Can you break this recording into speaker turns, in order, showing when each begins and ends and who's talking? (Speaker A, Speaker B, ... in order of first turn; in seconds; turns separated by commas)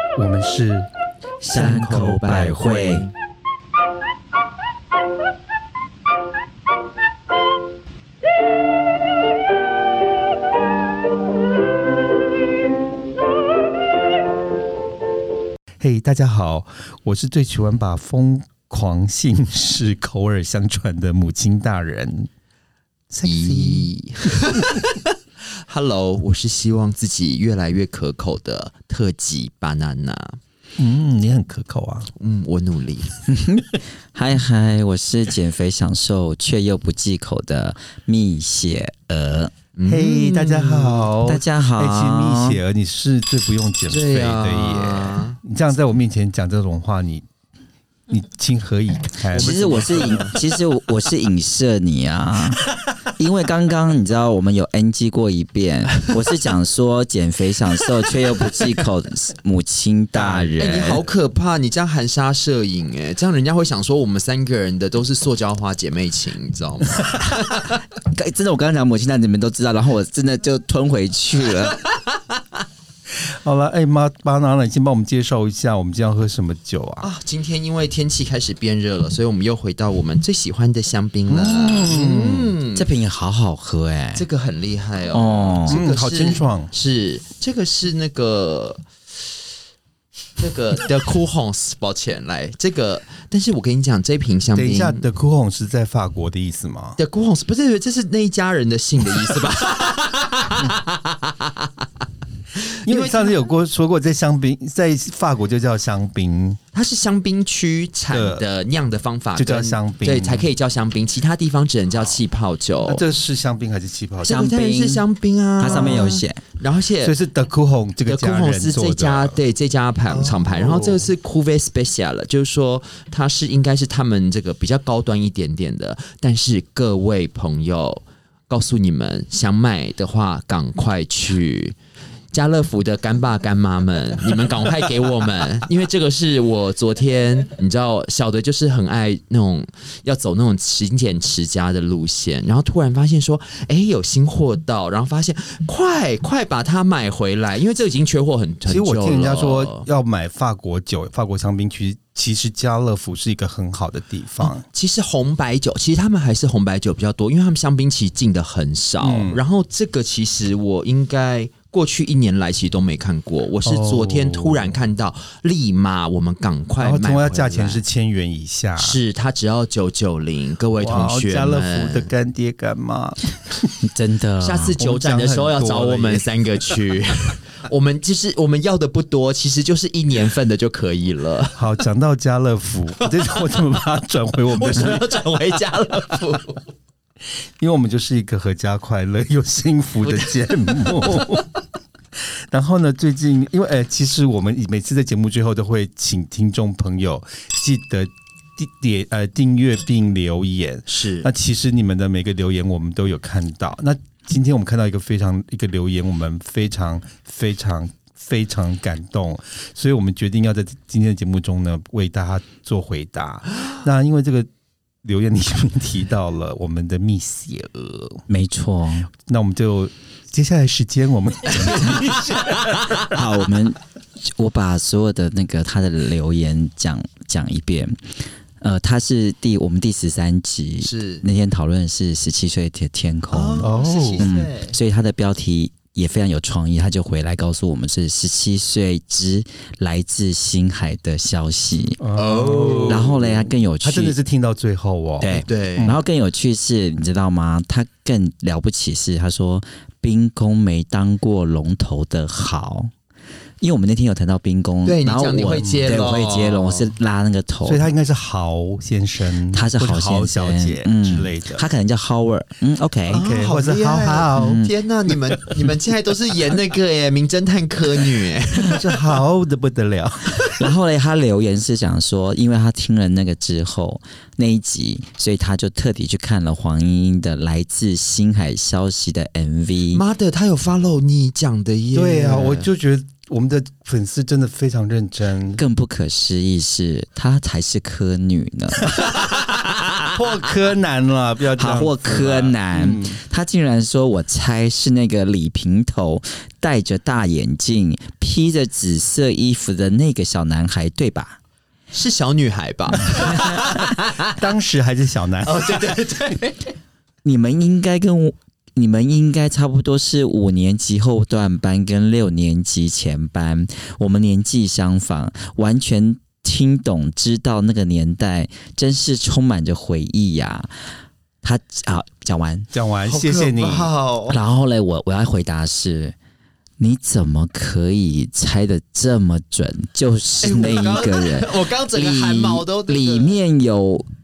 Speaker A: 0.1-0.9, Speaker B: 1.4-3.1, Speaker C: 1.5-3.1, Speaker A: 15.8-22.3, Speaker A: 23.1-23.9, Speaker C: 23.2-30.4, Speaker A: 24.5-24.9, Speaker A: 30.8-32.1, Speaker C: 32.2-33.1, Speaker B: 33.3-39.5, Speaker C: 39.8-41.1, Speaker A: 39.9-47.3, Speaker B: 41.2-42.6, Speaker C: 43.9-45.4, Speaker A: 48.1-50.3, Speaker B: 49.3-61.0, Speaker C: 49.3-50.4, Speaker C: 60.2-67.8, Speaker B: 68.1-71.8, Speaker A: 73.3-77.1, Speaker C: 77.0-82.9, Speaker A: 81.3-82.6, Speaker B: 82.7-84.3, Speaker C: 84.2-88.8, Speaker B: 85.1-85.8, Speaker A: 85.7-86.7, Speaker C: 90.4-95.0, Speaker A: 94.5-97.0, Speaker C: 97.0-101.7, Speaker C: 102.6-103.3, Speaker A: 102.8-106.6, Speaker C: 106.7-113.0, Speaker A: 108.1-108.4, Speaker A: 109.4-110.5, Speaker A: 112.8-114.5, Speaker C: 114.2-117.2, Speaker B: 114.2-115.0, Speaker B: 115.6-116.4, Speaker A: 115.6-116.2, Speaker A: 117.0-119.4, Speaker C: 118.1-131.8, Speaker A: 120.1-121.1, Speaker C: 132.3-149.9, Speaker A: 148.7-154.7, Speaker C: 154.4-167.8, Speaker A: 159.0-159.4, Speaker A: 163.6-164.8, Speaker A: 166.8-169.0, Speaker C: 168.8-172.1, Speaker A: 170.8-173.7, Speaker B: 173.8-174.8, Speaker C: 174.4-181.6, Speaker A: 174.8-176.2, Speaker A: 181.5-185.2, Speaker C: 183.0-183.6, Speaker C: 184.5-186.7, Speaker A: 187.6-191.5, Speaker A: 192.2-214.5, Speaker C: 200.9-201.3, Speaker A: 215.0-218.2, Speaker B: 218.3-219.1, Speaker A: 219.2-223.2, Speaker C: 221.7-222.4, Speaker B: 223.1-242.0, Speaker C: 230.8-231.2, Speaker C: 233.3-234.8, Speaker A: 233.6-234.3, Speaker A: 242.0-246.0, Speaker C: 242.2-243.2, Speaker B: 242.9-244.2, Speaker B: 245.2-252.9, Speaker C: 245.4-246.0, Speaker B: 253.6-257.9, Speaker C: 254.8-256.9, Speaker A: 255.6-256.0, Speaker A: 257.6-261.6, Speaker B: 259.5-263.2, Speaker C: 263.1-269.2, Speaker A: 263.1-265.8, Speaker B: 264.4-264.7, Speaker A: 268.7-270.6, Speaker B: 270.6-280.0, Speaker C: 279.9-282.7, Speaker A: 281.9-285.6, Speaker B: 285.6-289.1, Speaker A: 290.0-293.2, Speaker B: 291.6-301.4, Speaker C: 301.9-304.3, Speaker A: 304.2-306.1, Speaker C: 305.4-306.7, Speaker B: 307.2-320.7, Speaker B: 321.4-322.7, Speaker A: 322.7-323.9, Speaker C: 323.1-324.4, Speaker B: 324.3-326.1, Speaker B: 326.8-334.1, Speaker C: 330.4-333.4